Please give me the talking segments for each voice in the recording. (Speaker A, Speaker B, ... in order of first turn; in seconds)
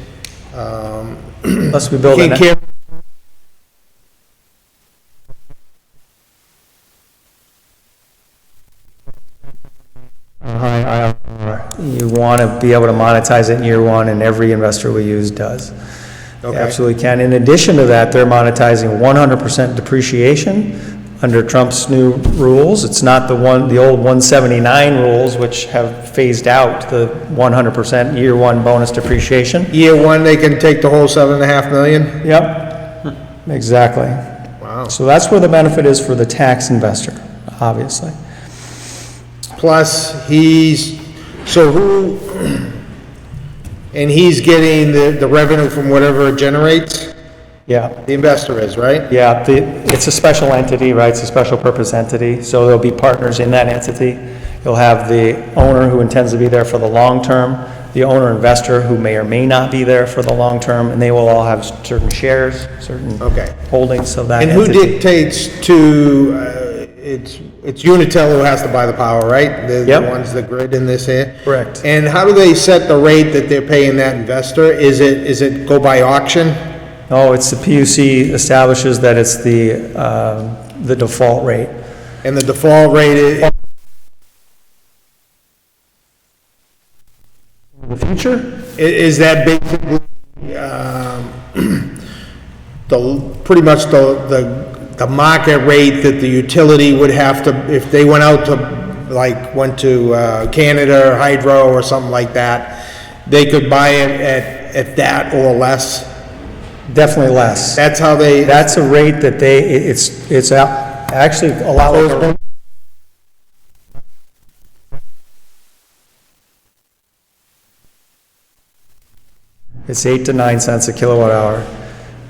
Speaker A: 0.5-2.6, 16.4-16.8, 29.7-32.2, 34.6-34.9, 39.5-42.7, 43.9-47.1, 48.0-49.1, 63.2-63.5, 64.4-76.6, 82.2-83.5, 88.8-91.9, 92.9-106.1, 107.8-108.7, 112.0-112.3
Speaker B: 1.7-2.4, 10.4-15.7, 16.5-29.7, 32.2-32.9, 33.5-34.2, 34.9-38.1, 47.7-48.0, 49.1-65.0, 71.5-71.8, 77.1-81.7, 87.8-88.5, 106.9-107.8, 108.4-112.3, 119.9-121.7